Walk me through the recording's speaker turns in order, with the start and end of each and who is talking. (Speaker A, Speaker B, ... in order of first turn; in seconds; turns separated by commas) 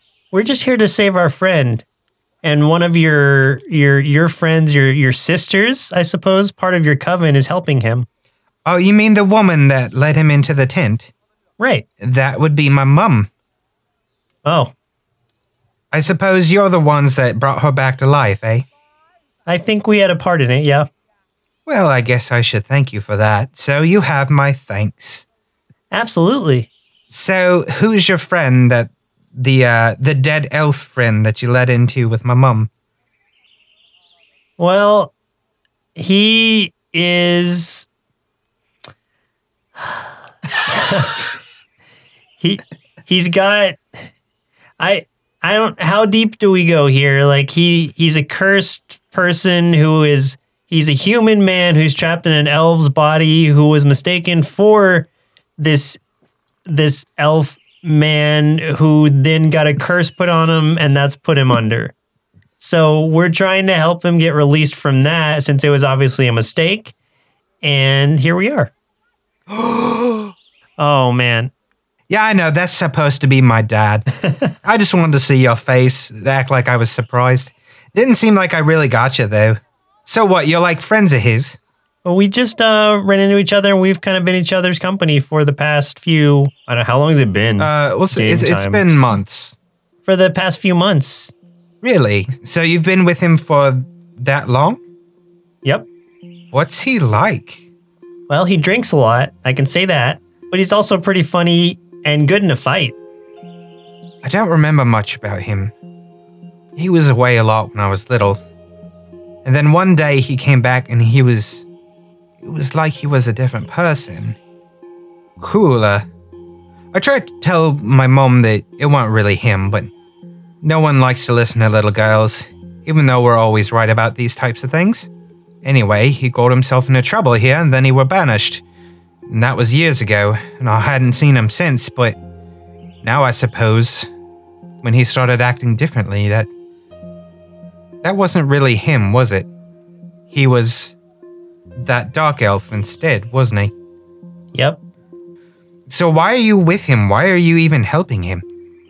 Speaker A: 0.3-1.9, Speaker A: 2.4-8.1, Speaker B: 8.7-11.1, Speaker A: 11.6-11.8, Speaker B: 12.0-13.3, Speaker A: 14.4-14.7, Speaker B: 15.9-18.7, Speaker A: 19.4-20.9, Speaker B: 21.6-25.2, Speaker A: 25.9-26.7, Speaker B: 27.1-32.7, Speaker A: 34.6-35.1, Speaker A: 35.9-37.9, Speaker A: 40.6-41.2, Speaker A: 42.4-44.0, Speaker A: 44.8-56.0, Speaker A: 56.6-61.9, Speaker A: 62.6-66.9, Speaker A: 67.6-68.7, Speaker B: 69.5-70.3, Speaker A: 70.8-71.5, Speaker B: 72.1-74.1, Speaker A: 74.2-74.5, Speaker B: 74.6-81.6, Speaker A: 82.0-89.0, Speaker B: 87.6-89.5, Speaker A: 90.0-91.3, Speaker B: 91.8-94.8, Speaker B: 96.5-97.7, Speaker A: 98.3-103.0, Speaker B: 104.2-105.7, Speaker B: 106.8-108.4, Speaker B: 109.4-111.7, Speaker B: 112.4-114.4, Speaker B: 115.4-116.1, Speaker B: 116.9-119.9, Speaker B: 120.6-125.1, Speaker B: 125.6-128.6, Speaker B: 129.3-132.2, Speaker B: 133.0-134.1, Speaker B: 134.8-136.5, Speaker B: 138.0-139.5, Speaker B: 140.3-141.0, Speaker B: 141.8-143.7, Speaker A: 144.5-144.8, Speaker B: 145.9-148.4